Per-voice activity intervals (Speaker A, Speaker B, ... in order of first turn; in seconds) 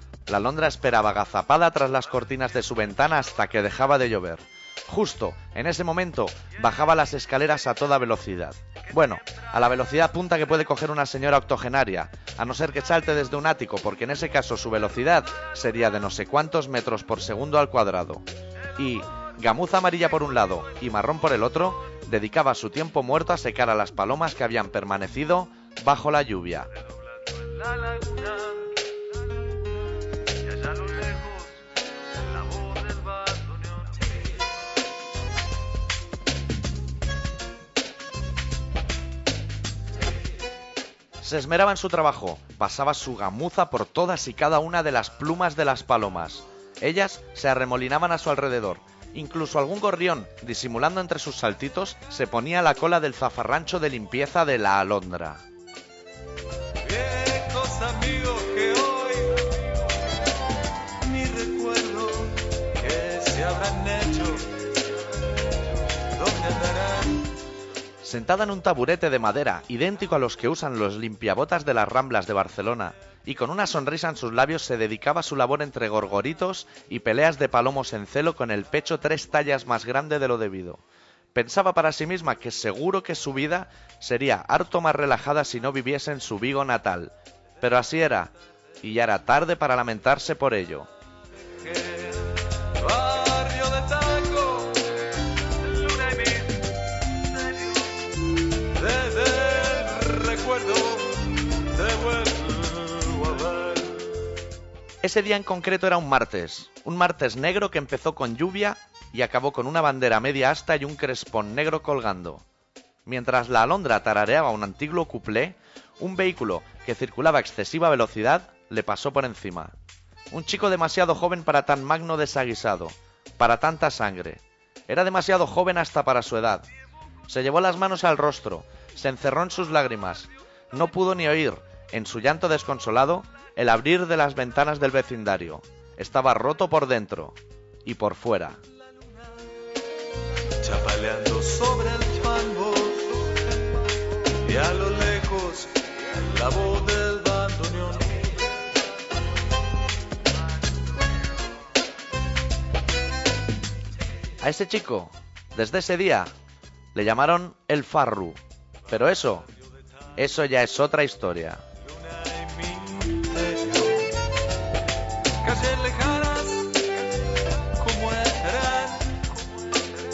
Speaker A: 0.3-26.7, 41.2-55.4, 68.0-80.8, 81.3-90.9, 105.0-112.4, 113.0-119.7, 120.3-126.7, 127.3-138.6, 154.4-156.3, 156.9-159.5, 160.2-161.6
Speaker B: 27.2-28.8, 30.4-34.1, 56.8-59.6, 61.0-64.7, 66.1-67.3, 91.6-95.0, 95.6-96.7, 98.7-104.1, 140.6-143.5, 144.3-148.4, 161.8-164.2, 165.4-166.9, 167.7-169.8